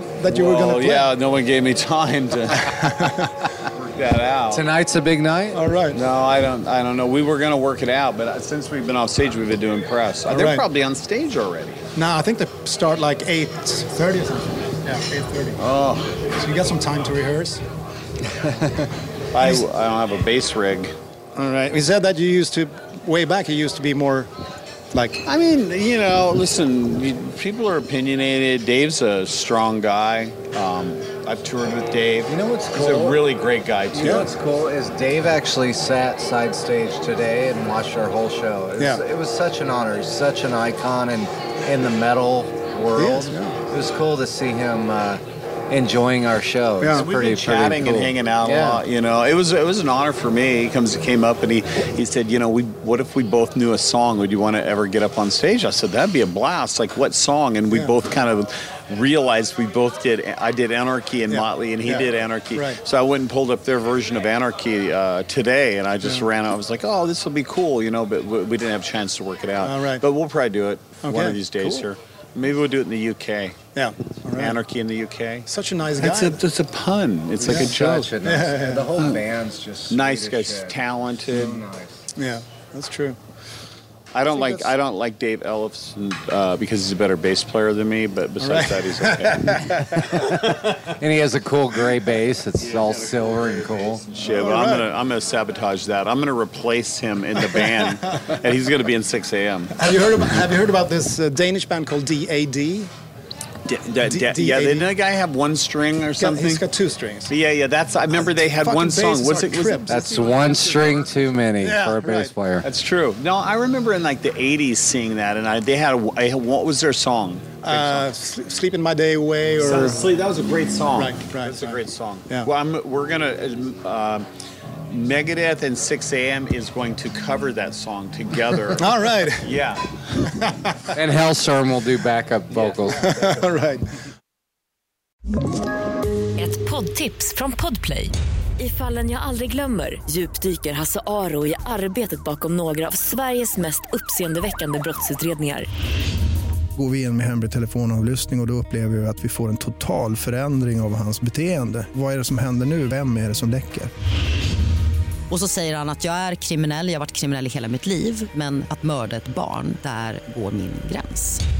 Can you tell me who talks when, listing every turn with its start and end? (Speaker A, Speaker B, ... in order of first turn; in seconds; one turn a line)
Speaker A: 0.1-1.1
Speaker B: 0.3-3.2
Speaker A: 2.6-3.3
Speaker B: 3.8-4.7
Speaker C: 4.5-5.6
Speaker A: 5.5-6.0
Speaker B: 5.9-11.8
Speaker A: 10.3-10.7
Speaker A: 11.9-15.6
Speaker B: 15.6-16.1
Speaker A: 16.3-17.6
Speaker B: 19.3-20.9
Speaker A: 21.4-24.3
Speaker A: 24.9-25.2
Speaker B: 25.2-34.3
Speaker C: 32.3-33.3
Speaker C: 33.9-48.8
Speaker A: 34.0-34.3
Speaker A: 38.8-39.0
Speaker A: 42.9-43.6
Speaker A: 46.8-47.0
Speaker B: 46.8-73.5
Speaker A: 57.7-58.0
Speaker A: 61.3-62.8
Speaker A: 66.0-66.3
Speaker A: 69.6-70.0
Speaker A: 71.0-71.9
Speaker A: 73.7-74.6
Speaker B: 74.3-75.5
Speaker A: 75.5-76.4
Speaker B: 76.0-78.1
Speaker A: 77.4-79.0
Speaker C: 77.4-82.0
Speaker B: 79.0-79.2
Speaker B: 79.9-81.6
Speaker A: 82.1-83.2
Speaker B: 84.1-90.9
Speaker A: 84.3-84.8
Speaker A: 88.4-90.2
Speaker C: 91.0-94.0
Speaker B: 92.5-99.7
Speaker A: 94.2-94.9
Speaker A: 97.4-98.1
Speaker A: 99.7-102.9
Speaker B: 103.7-106.6
Speaker A: 104.0-104.9
Speaker A: 106.2-107.3
Speaker B: 107.3-111.2
Speaker A: 108.1-110.0
Speaker C: 109.9-112.6
Speaker A: 111.6-112.3
Speaker B: 112.6-118.1
Speaker A: 117.6-120.0
Speaker B: 119.6-124.3
Speaker A: 120.9-122.5
Speaker B: 124.9-129.8
Speaker A: 128.7-129.5
Speaker A: 130.2-130.9
Speaker C: 130.9-133.1
Speaker B: 132.5-133.3
Speaker A: 132.9-133.8
Speaker D: 136.4-145.7
Speaker E: 146.8-153.9
Speaker F: 155.3-161.4